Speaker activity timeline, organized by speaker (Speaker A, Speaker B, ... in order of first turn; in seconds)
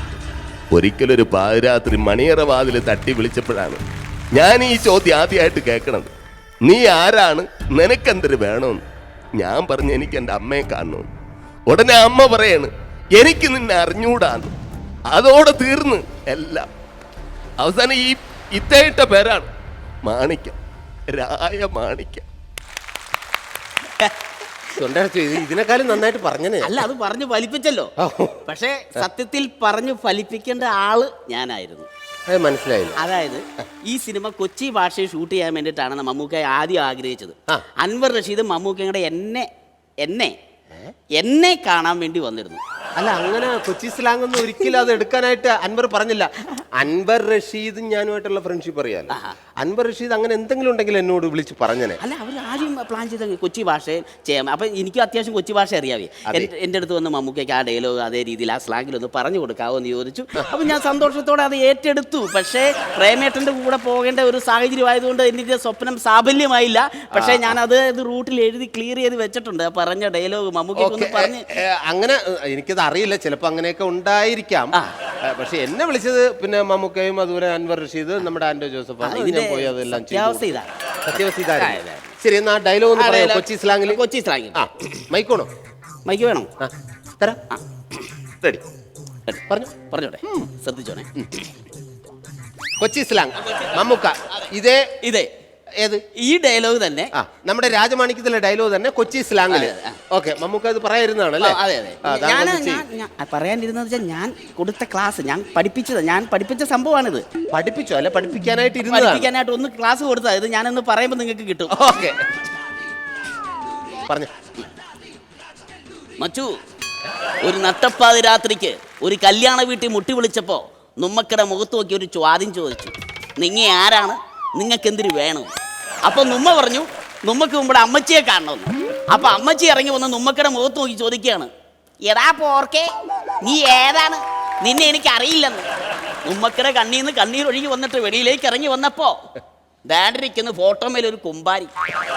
Speaker A: 0.7-3.8, 4.3-6.1, 6.6-8.8, 9.4-11.1, 11.7-14.5, 15.1-16.7, 17.6-19.5, 20.0-20.6, 21.1-22.2
Speaker B: 24.8-26.8, 28.0-28.4, 32.3-33.0, 43.0-52.0, 67.1-67.6, 70.8-84.0, 84.5-85.5, 86.6-87.4, 92.8-94.8, 97.1-102.8, 107.5-109.3, 111.7-112.2
Speaker C: 26.6-27.9, 28.4-31.9, 33.0-39.5, 40.0-40.3, 41.2-42.6, 49.1-49.4, 52.0-71.5, 79.0-82.2, 83.0-85.0, 86.0-86.5, 87.5-88.0, 89.3-91.1, 95.0-95.3, 96.1-97.1, 99.5-100.0, 101.4-107.2, 108.9-111.8, 116.2-116.6, 117.4-125.5, 126.0-131.5, 132.1-132.9, 133.4-135.7, 136.2-139.3, 139.8-141.7